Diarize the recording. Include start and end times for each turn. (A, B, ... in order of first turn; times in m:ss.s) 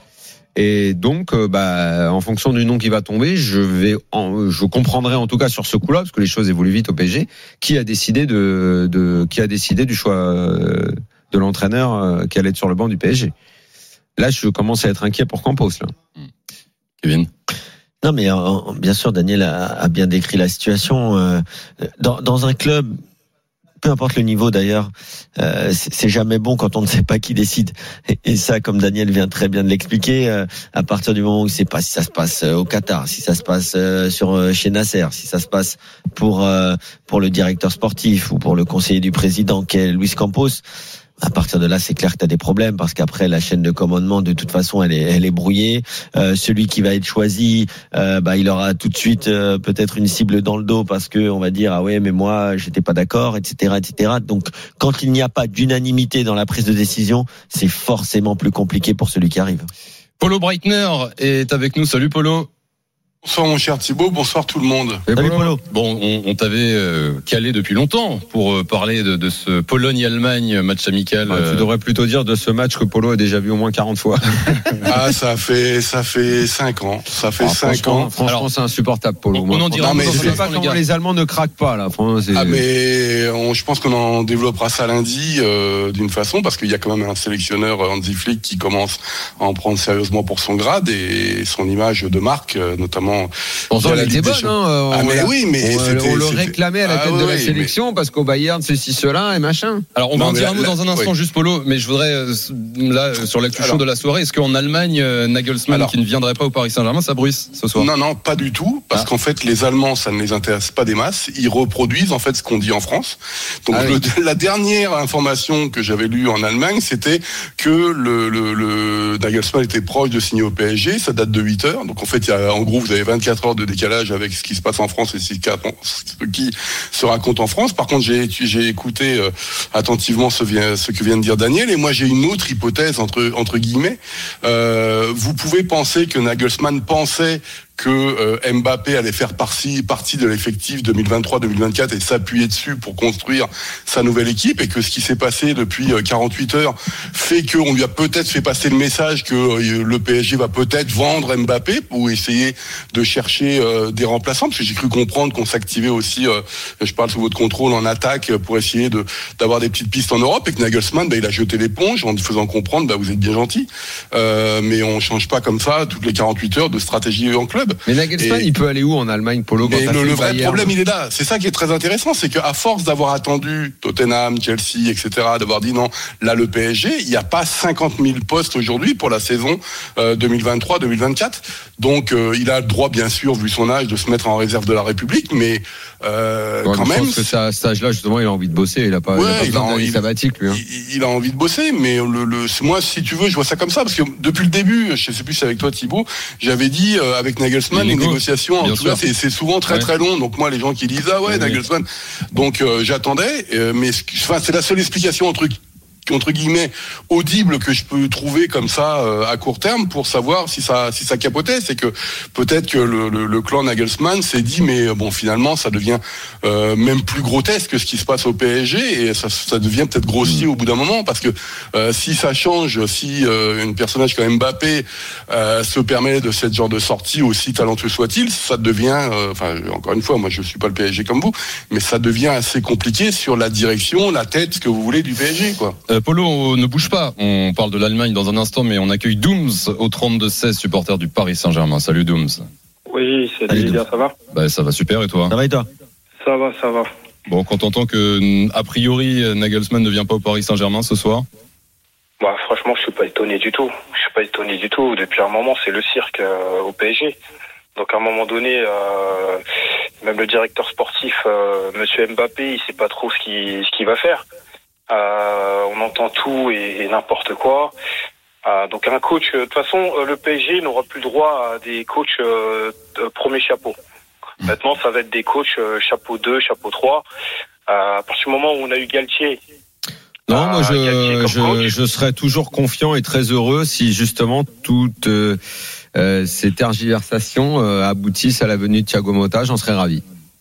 0:00.6-0:13.3 A
0:14.2-0:15.9 A
0:17.0-0:17.3 B
0:18.0-0:23.0 C
0:23.8-0:40.6 C
0:41.2-0:59.7 C
1:00.2-1:02.5 B
1:03.2-1:05.1 D
1:05.1-1:05.4 A
1:05.1-1:05.6 C
1:05.3-1:11.7 B
1:11.3-1:14.9 A
1:14.9-1:18.1 D
1:17.4-1:22.6 A
1:19.3-1:20.8 B
1:19.8-1:20.4 D
1:22.3-1:37.7 D
1:33.7-1:39.8 A
1:40.0-1:47.9 B
1:40.1-1:41.1 D
1:45.7-1:45.9 D
1:47.8-2:48.5 D
1:53.7-1:54.0 A
2:47.9-2:50.7 A
2:49.6-3:07.3 D
3:06.6-3:10.6 A
3:09.1-3:25.5 D
3:17.7-3:19.1 B
3:21.3-3:21.6 B
3:26.1-3:55.8 D
3:55.9-4:02.4 B
4:02.9-4:04.1 E
4:03.5-4:03.8 C
4:04.3-4:05.3 B
4:05.3-4:05.7 C
4:06.2-4:06.9 E
4:07.3-4:11.3 B
4:12.2-4:17.2 E
4:17.8-4:19.4 E
4:20.0-4:24.2 E
4:24.9-4:27.7 E
4:28.4-4:33.8 E
4:34.4-4:37.0 E
4:37.7-4:39.4 E
4:40.3-4:45.4 A
4:40.3-4:41.7 E
4:46.0-4:50.0 A